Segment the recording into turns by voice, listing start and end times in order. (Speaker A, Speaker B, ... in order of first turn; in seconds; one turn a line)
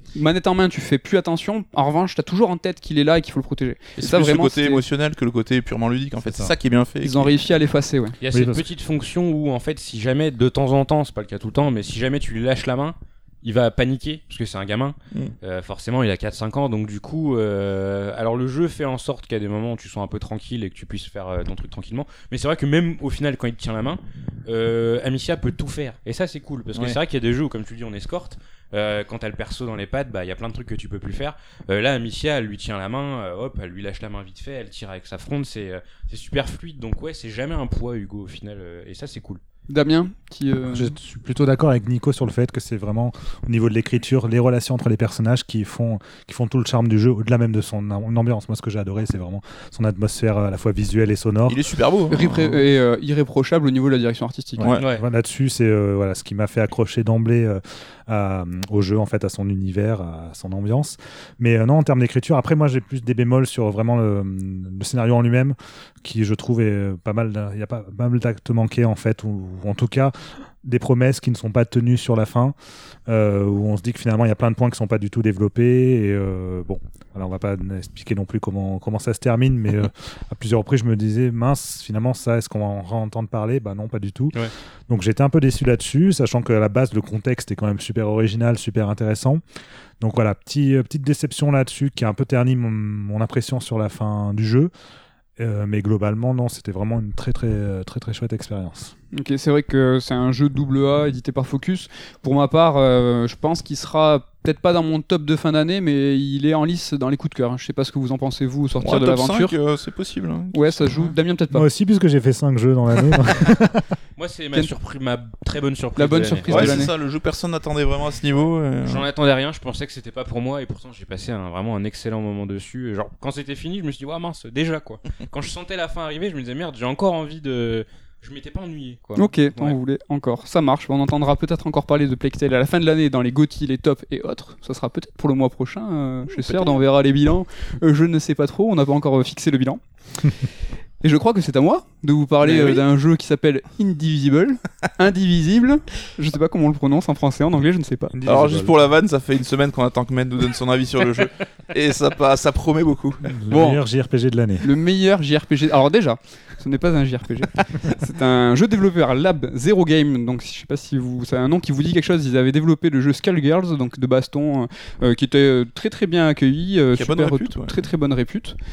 Speaker A: 0.1-4.8
Speaker B: 4.0-7.3
Speaker C: 6.2-6.5
Speaker A: 7.0-8.2
Speaker D: 8.2-39.4
Speaker C: 8.3-8.7
Speaker A: 39.7-40.9
Speaker C: 40.7-51.6
Speaker B: 51.5-52.6
Speaker A: 52.1-54.7
Speaker C: 54.6-72.5
Speaker D: 54.8-55.0
Speaker C: 73.1-89.4
Speaker C: 90.0-94.7
Speaker C: 95.4-98.9
Speaker A: 99.1-109.5
Speaker B: 108.8-111.1
Speaker A: 110.5-111.6
Speaker C: 111.5-113.8
Speaker D: 114.2-116.9
Speaker A: 116.0-116.9
Speaker B: 116.5-119.0
Speaker D: 118.8-129.8
Speaker A: 129.2-139.8
Speaker D: 136.3-136.7
Speaker A: 141.0-148.2
Speaker B: 142.4-142.8
Speaker C: 148.1-148.8
Speaker B: 148.2-153.3
Speaker C: 153.3-154.7
Speaker A: 153.5-153.8
Speaker A: 154.6-168.6
Speaker B: 166.9-167.8